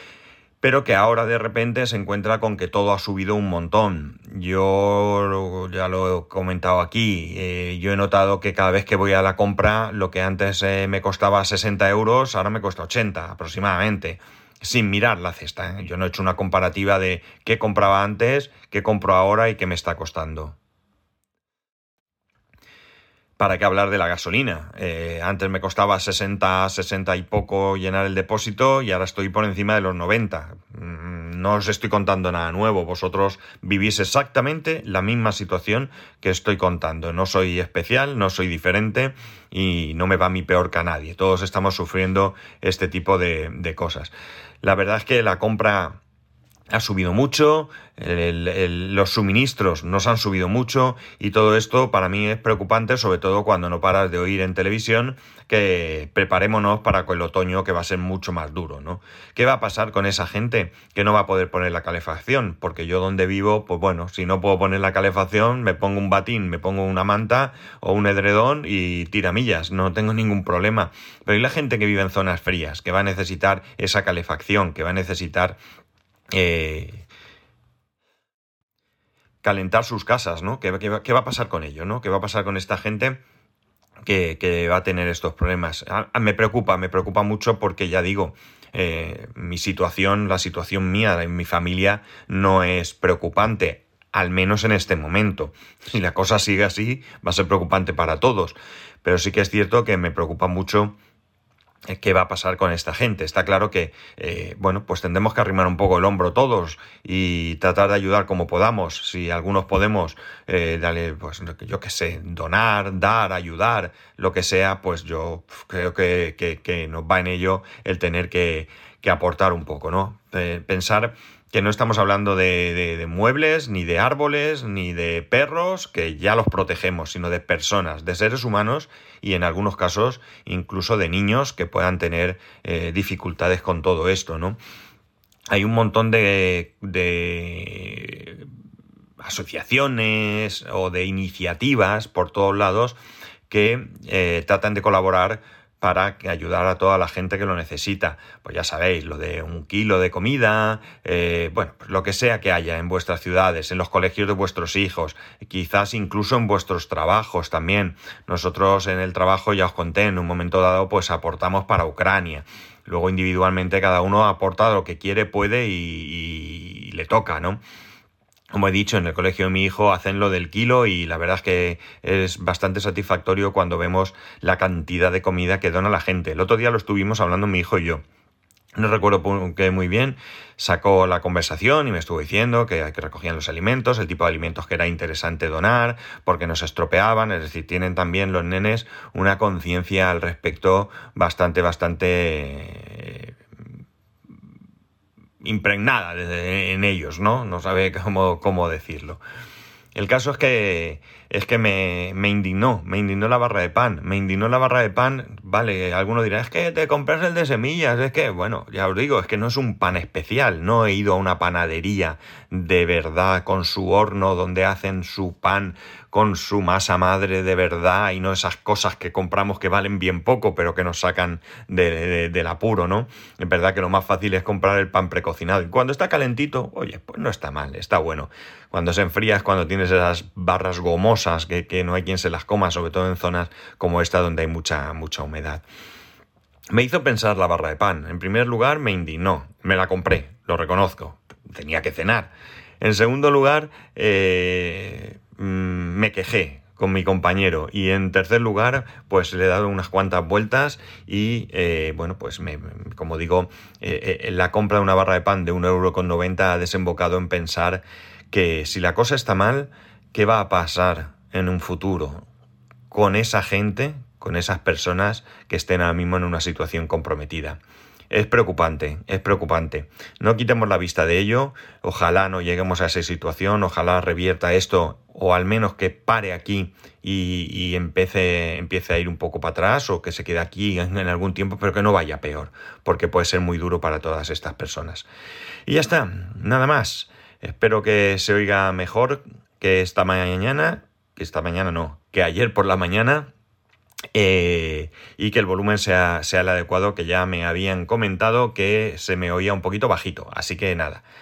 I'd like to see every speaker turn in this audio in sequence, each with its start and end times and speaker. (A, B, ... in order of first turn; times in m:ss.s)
0:00.6-0:20.6 A
0:23.4-0:46.0 A
0:46.7-1:15.6 A
1:16.3-1:17.1 A
1:19.4-1:23.2 A
1:24.1-1:41.0 A
1:41.9-2:14.6 A
2:15.5-2:18.5 A
2:19.2-2:23.0 A
2:23.5-2:47.6 A
2:48.5-2:58.0 A
2:58.8-3:13.4 A
3:15.4-3:19.2 A
3:20.0-3:55.6 A
3:56.7-4:22.2 A
4:22.9-4:45.1 A
4:45.7-4:53.3 A
4:54.1-5:01.0 A